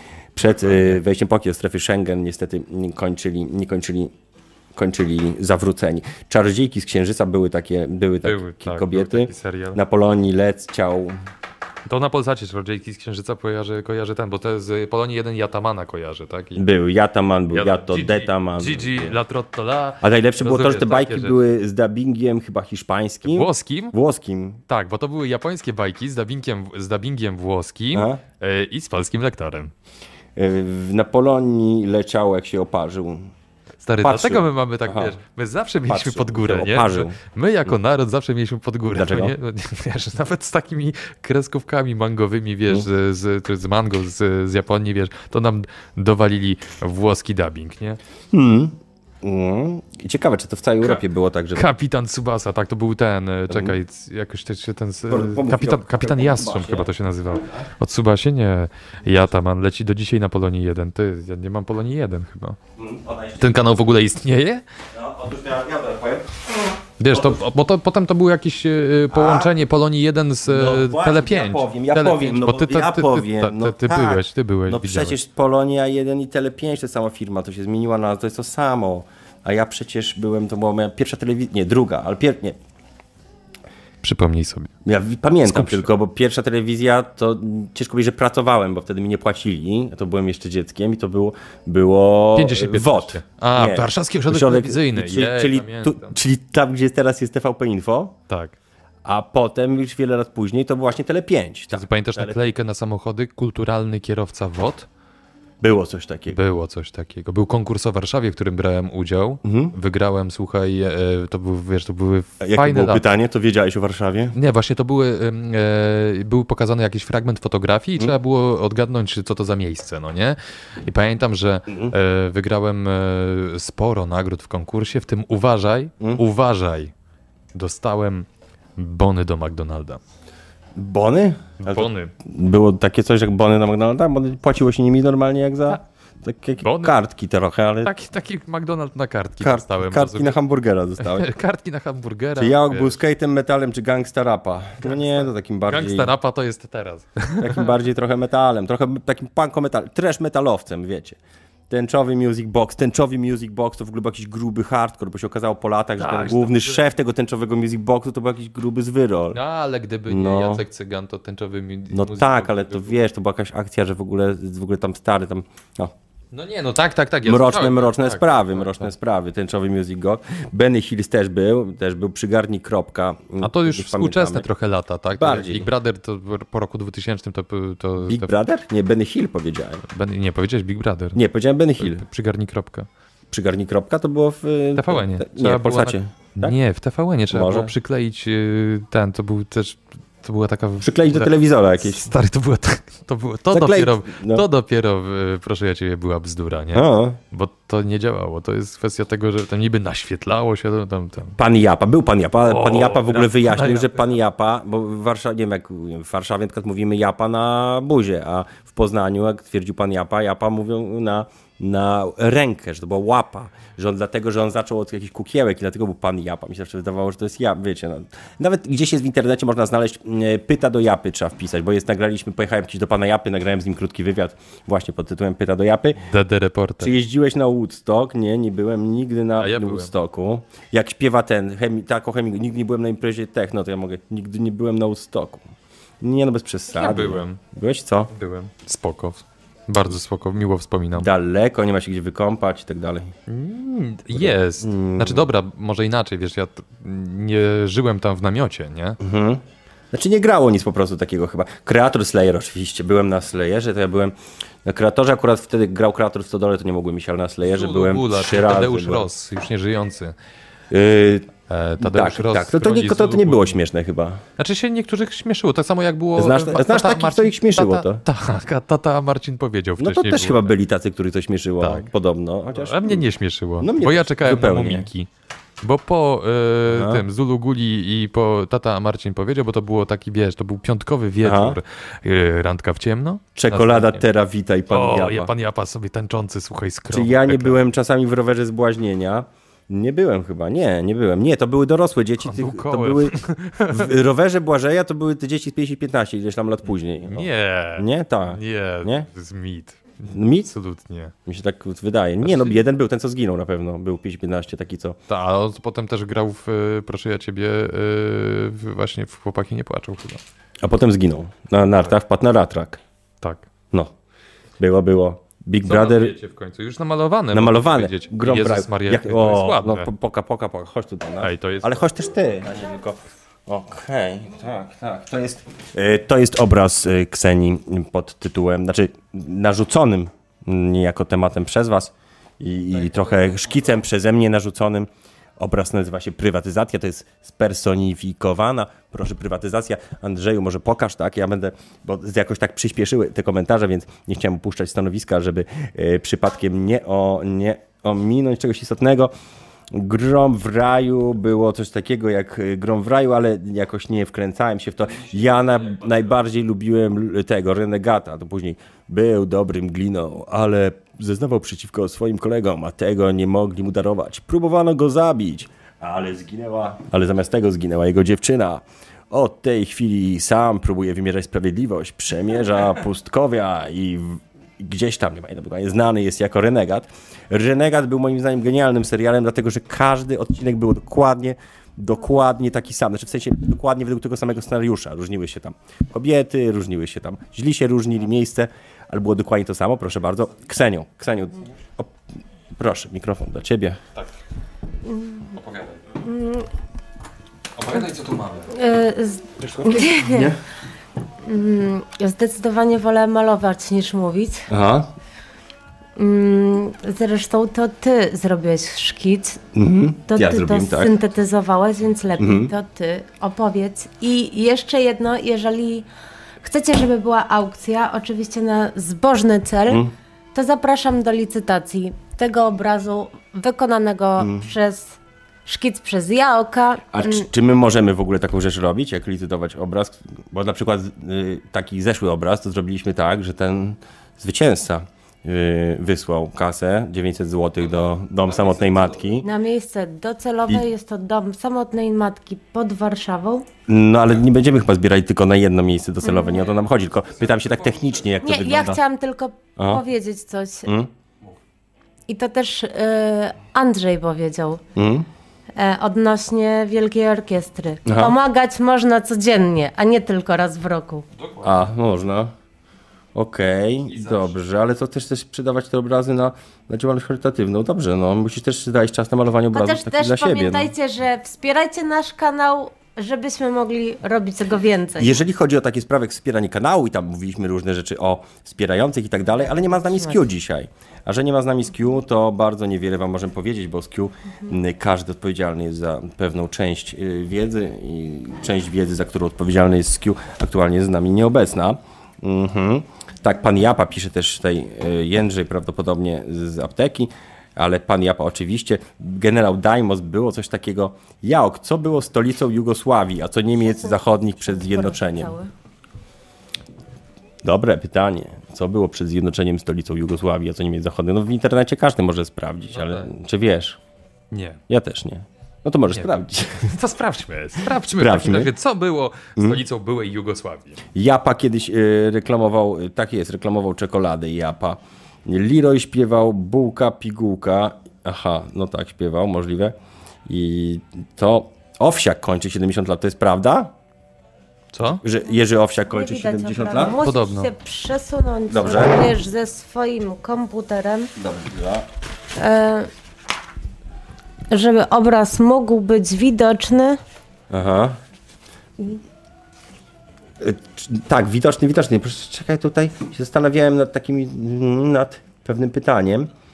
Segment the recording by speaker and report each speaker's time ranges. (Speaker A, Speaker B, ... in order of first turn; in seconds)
Speaker A: 0.3-4.1, 4.7-11.2, 16.6-19.1, 20.0-24.6, 27.9-28.2, 30.4-33.3, 34.0-35.1, 35.9-37.2, 38.9-39.3, 48.3-51.7, 53.5-53.8, 55.1-56.9, 62.8-63.5, 64.9-66.5, 67.1-67.4, 69.1-69.5, 70.4-82.5, 84.8-98.2, 99.0-102.4, 105.6-106.4, 109.4-109.7, 112.4-114.3, 121.7-121.9, 130.8-137.9, 139.4-141.3, 142.4-146.1, 147.4-151.2, 151.7-159.4, 160.1-160.6, 161.9-165.9, 167.2-174.5, 175.2-175.7, 178.0-179.8, 181.1-182.0, 183.3-186.6, 187.3-187.7, 190.8-192.1, 193.5-194.4, 196.7-197.2, 201.4-226.0, 226.8-235.4, 236.0-238.1, 240.9-243.1, 244.1-245.3, 249.0-259.1, 260.7-264.2, 266.2-268.0, 269.8-273.0, 273.6-274.9, 276.7-277.0, 281.2-281.6, 283.3-285.3, 286.9-299.1, 300.1-300.5, 301.2-305.0, 310.6-312.8, 314.6-316.1, 317.3-349.1, 349.7-391.9, 392.5-393.8, 399.6-400.4, 404.5-404.9, 409.5-410.9, 412.2-412.5, 419.7-419.9, 424.2-424.5, 426.9-439.2, 443.7-448.8, 449.6-449.8, 450.6-450.9, 454.7-455.1, 457.9-458.1, 461.4-462.3, 463.1-470.7, 475.0-505.3, 507.4-513.8, 514.7-516.7, 517.9-518.5, 519.4-519.6, 520.9-529.7, 530.3-533.7, 535.0-537.0, 538.5-539.0, 541.1-541.9, 547.5-548.0, 550.4-556.3
Speaker B: 0.4-1.0, 8.2-9.8, 11.8-16.6, 17.5-21.4, 23.2-23.9, 24.7-29.7, 33.8-48.0, 51.5-62.6, 63.4-64.6, 67.0-75.2, 84.0-84.7, 85.4-85.9, 92.3-96.2, 98.3-98.6, 101.7-104.9, 106.3-113.0, 114.3-126.9, 127.5-130.0, 131.6-132.1, 136.6-137.0, 137.8-140.4, 141.0-143.0, 144.8-147.7, 156.0-156.8, 159.3-163.0, 166.3-168.9, 173.4-178.3, 179.9-181.2, 181.8-182.9, 184.8-201.4, 202.4-204.2, 226.0-226.9, 229.4-229.9, 236.7-237.4, 238.1-241.1, 243.3-249.0, 257.4-260.1, 261.5-263.6, 264.4-270.5, 271.6-271.9, 272.5-275.1, 275.6-284.0, 284.7-287.6, 292.2-294.0, 297.1-301.1, 302.2-302.6, 305.1-310.2, 313.2-313.5, 315.6-319.9, 321.2-321.8, 395.3-395.8, 397.6-398.5, 438.4-438.9, 461.1-461.7, 463.9-464.3, 514.3-514.6, 515.9-520.8, 534.7-535.0, 537.0-537.5
Speaker C: 394.9-395.4, 396.0-396.5, 398.5-400.3, 401.2-404.5, 406.0-409.4, 410.1-415.9, 416.4-427.3, 439.2-443.5, 446.0-446.5, 448.2-450.7, 452.1-454.6, 455.5-461.0, 469.5-475.2, 479.4-480.2, 503.7-505.5, 535.9-541.1, 542.4-542.9, 544.5-547.0